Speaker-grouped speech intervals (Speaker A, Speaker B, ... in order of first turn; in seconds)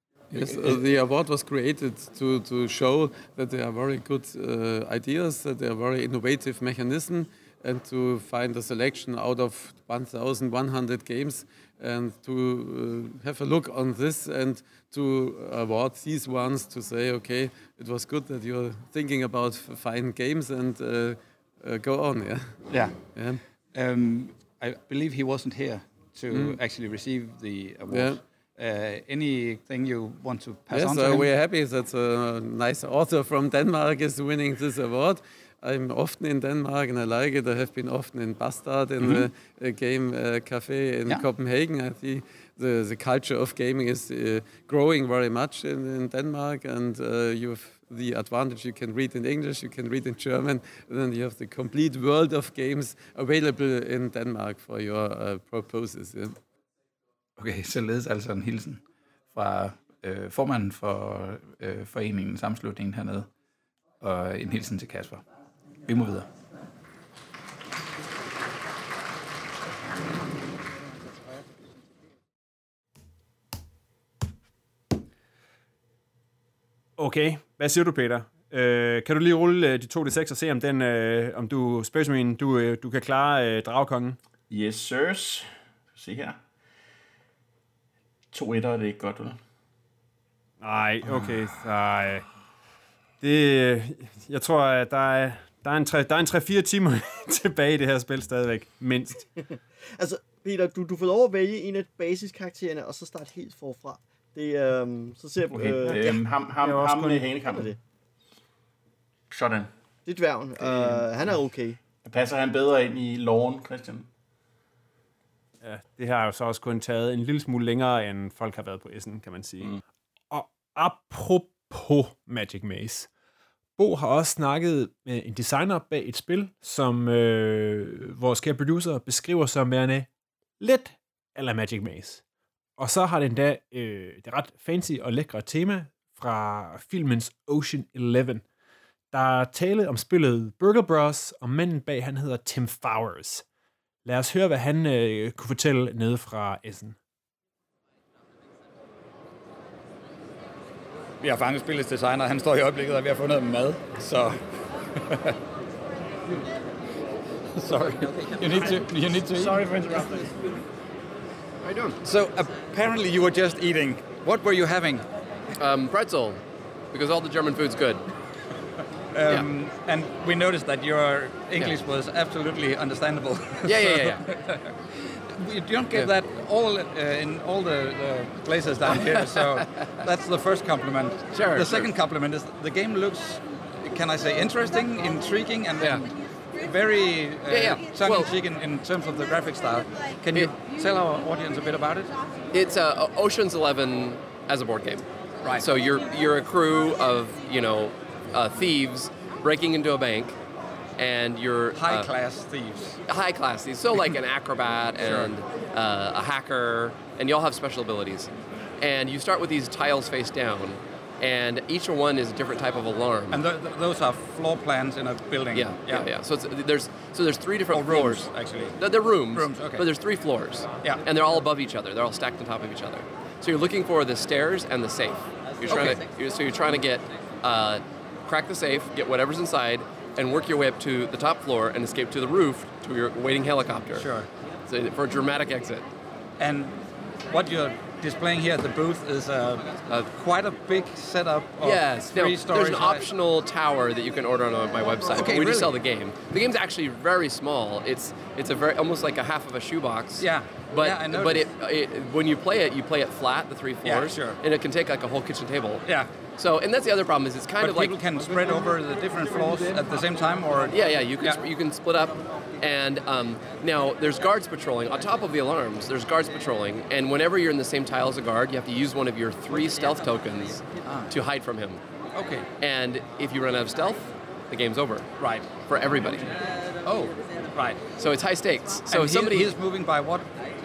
Speaker A: 0.3-22.6, 23.1-23.4, 26.3-26.6, 27.9-28.2, 30.7-56.4
Speaker B: 0.4-0.8, 22.7-23.0, 23.7-31.3, 39.0-39.3, 151.2-154.4, 155.0-155.3, 157.6-160.3, 162.0-165.1, 169.1-174.7, 175.3-192.1, 201.8-203.0, 205.0-205.3, 213.3-216.1, 217.7-218.7, 219.3-219.8, 225.7-226.0, 234.0-234.3, 236.4-243.0, 245.1-245.8, 250.2-251.5, 253.8-254.4, 257.6-261.4, 272.1-272.4, 275.2-275.5, 276.8-277.8, 278.9-280.3
Speaker C: 57.4-58.8, 59.3-63.3, 64.0-65.2, 65.9-66.3
Speaker D: 77.0-84.2, 90.6-92.3, 93.2-99.3, 105.9-107.3, 115.6-119.8, 120.3-123.1, 123.8-130.1, 130.6-132.2, 132.8-138.4, 139.1-143.4, 144.1-147.0
Speaker E: 84.5-86.4, 88.3-89.4, 105.4-107.7, 109.3-109.7, 110.6-111.4, 112.0-114.1
Speaker F: 100.0-106.2, 107.5-107.8, 110.1-111.8
Speaker G: 161.7-162.0, 165.6-166.4, 166.9-168.0, 173.7-174.2, 178.9-179.9, 181.3-181.9, 185.8-186.1, 187.5-188.3, 192.5-195.1, 195.6-200.4, 201.0-202.1, 203.1-213.4, 215.5-234.1, 234.7-235.9, 241.6-255.8, 256.4-258.0, 260.7-271.8, 272.6-275.1, 275.7-276.2, 278.0-279.5